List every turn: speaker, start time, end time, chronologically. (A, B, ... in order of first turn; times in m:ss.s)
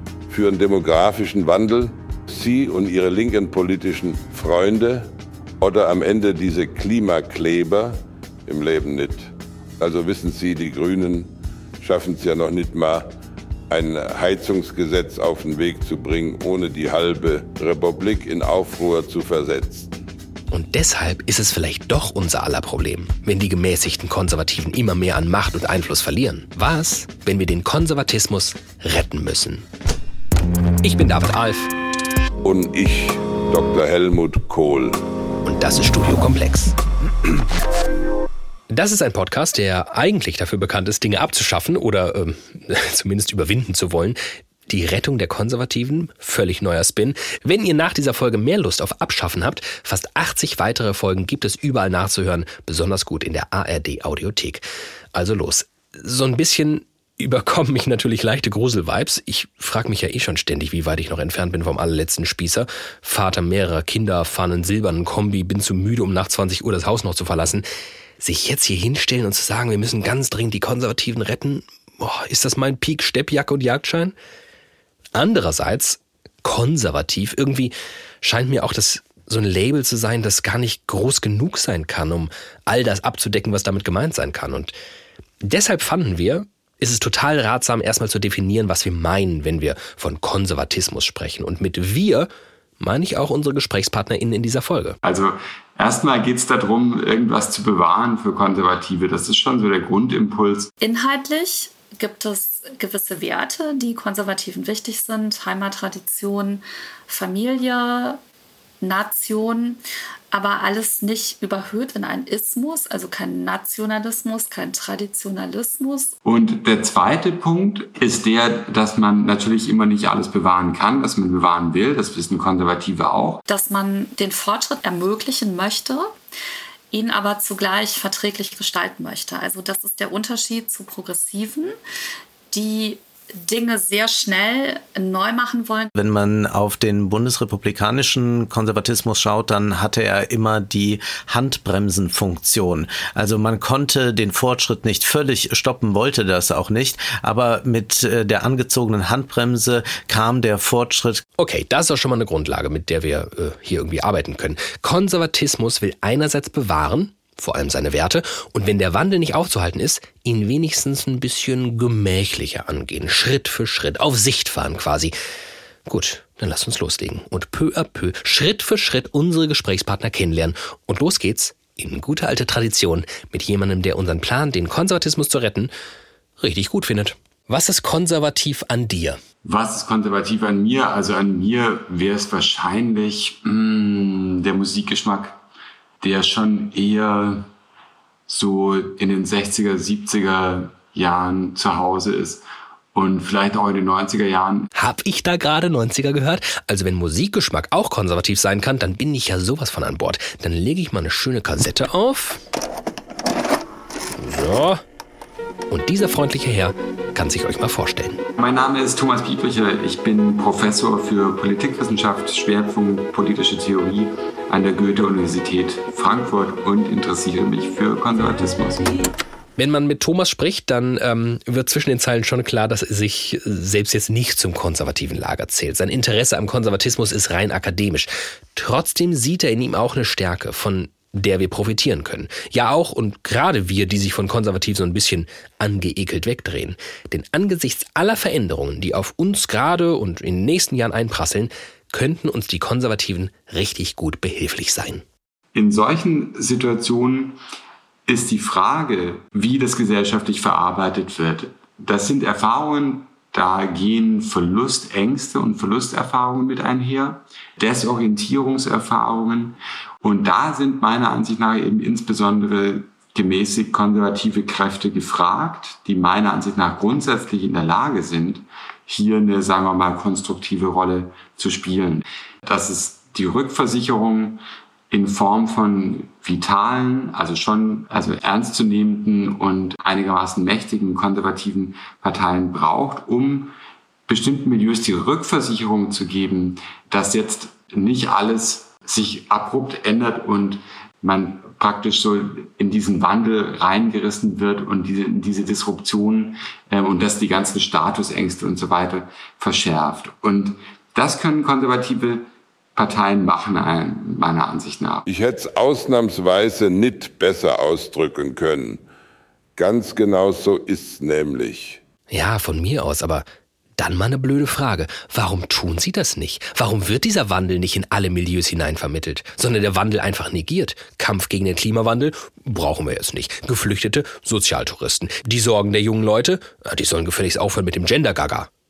0:00.3-0:11.3 A
0:11.8-0:13.1 A
0:13.7-0:19.9 A
0:20.5-0:29.6 B
0:30.8-0:31.7 B
0:32.4-0:35.0 A
0:35.4-0:36.8 B
0:38.7-1:07.6 B
1:08.2-1:14.1 B
1:15.1-1:24.7 B
1:25.4-1:32.3 B
1:32.8-1:35.0 B
1:35.0-1:40.7 C
1:40.8-1:48.2 D
1:48.8-1:56.1 D
1:56.2-2:03.4 C
2:03.5-2:06.1 D
2:06.9-2:11.8 D
2:12.5-2:15.9 D
2:16.0-2:31.2 E
2:31.4-2:45.1 B
2:45.9-2:55.7 B
2:56.4-2:59.2 B
2:59.4-3:05.4 C
3:06.0-3:07.5 C
3:08.3-3:14.7 C
3:14.7-3:22.4 B
3:24.2-3:24.8 B
3:25.7-3:28.2 B
3:28.4-3:39.0 C
3:39.6-4:05.0 B
4:05.5-4:07.4 C
4:08.1-4:43.5 C
4:44.1-5:05.0 C
5:05.0-5:08.8 A
5:09.6-5:11.8 A
5:12.1-5:13.2 B
5:13.8-5:28.5 B